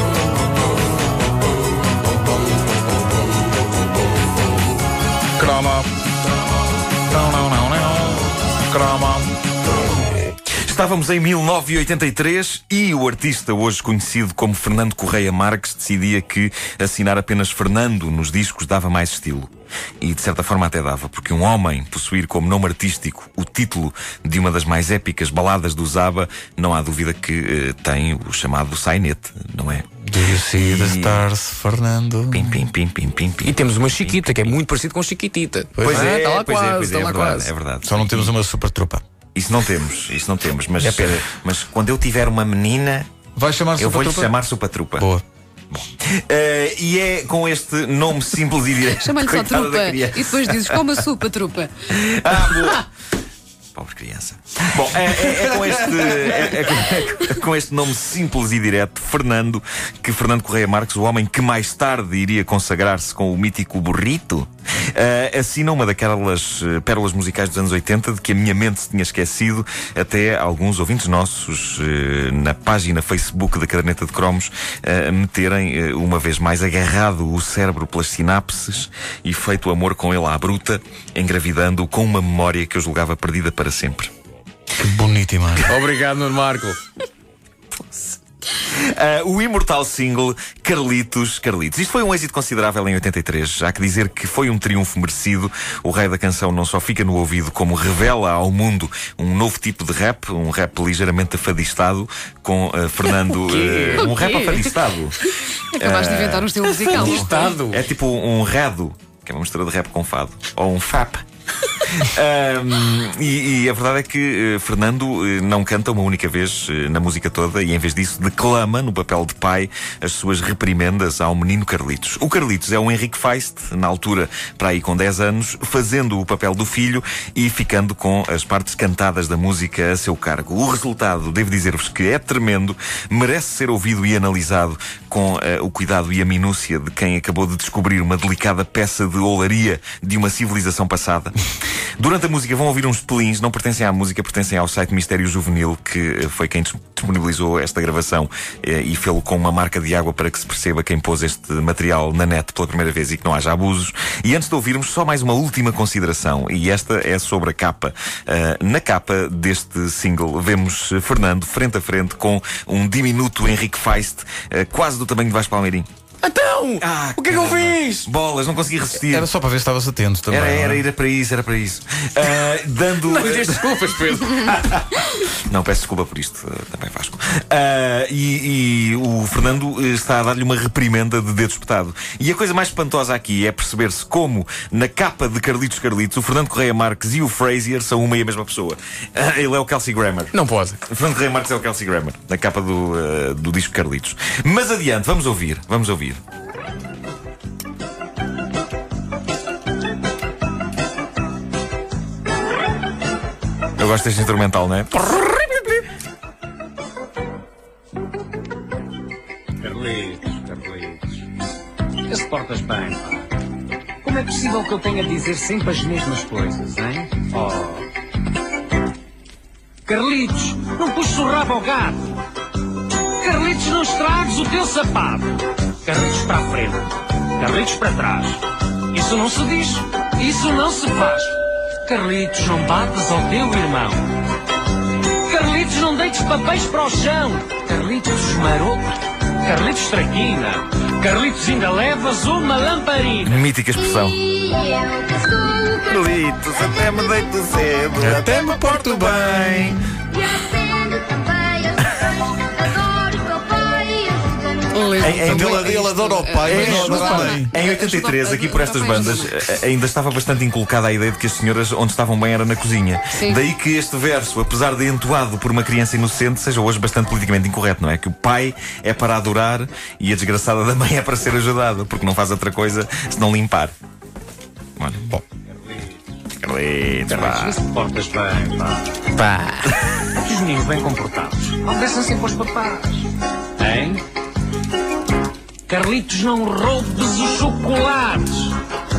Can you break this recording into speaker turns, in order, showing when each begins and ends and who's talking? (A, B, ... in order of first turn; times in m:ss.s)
0:05.4-0:05.9 A
0:07.1-0:09.3 A
0:10.6-0:19.5 B
0:20.0-0:31.3 B
0:30.0-0:32.6 A
0:32.3-0:34.6 B
0:33.4-0:37.5 C
0:35.8-0:36.2 A
0:35.8-0:38.3 B
0:37.8-0:39.0 A
0:39.4-0:43.1 B
0:40.8-0:41.2 A
0:43.4-0:44.3 A
0:43.8-0:45.1 B
0:45.0-0:45.2 A
0:45.7-0:51.1 B
0:48.9-0:51.8 D
0:51.9-0:52.9 B
0:53.8-1:24.1 B
0:55.1-0:56.3 A
1:24.8-1:25.8 A
1:25.6-1:26.8 C
1:27.9-1:45.2 B
1:43.3-1:44.7 C
1:45.8-2:45.9 B
1:45.8-1:47.5 D
1:46.7-1:47.9 C
2:46.2-2:48.1 C
2:46.8-2:49.3 B
2:48.9-2:50.8 A
2:50.3-3:10.3 B
2:52.2-2:54.9 C
3:10.3-3:10.8 C
3:10.9-3:16.2 B
3:23.8-3:25.2 B
3:25.0-3:25.8 C
3:29.6-3:31.3 E
3:32.1-3:33.4 E
3:34.0-3:37.9 E
3:39.9-3:42.2 E
3:43.2-3:54.2 E
3:55.3-4:03.4 E
4:03.2-4:04.5 B
4:05.3-4:09.8 B
4:08.0-4:09.8 A
4:14.7-4:19.4 D
4:15.0-4:15.8 B
4:15.0-4:17.5 A
4:16.4-4:33.7 B
4:23.2-4:23.4 D
4:34.8-4:35.1 B
4:36.4-4:37.6 B
4:37.1-4:39.1 E
4:39.2-4:39.8 C
4:40.2-4:44.0 E
4:45.7-4:48.6 E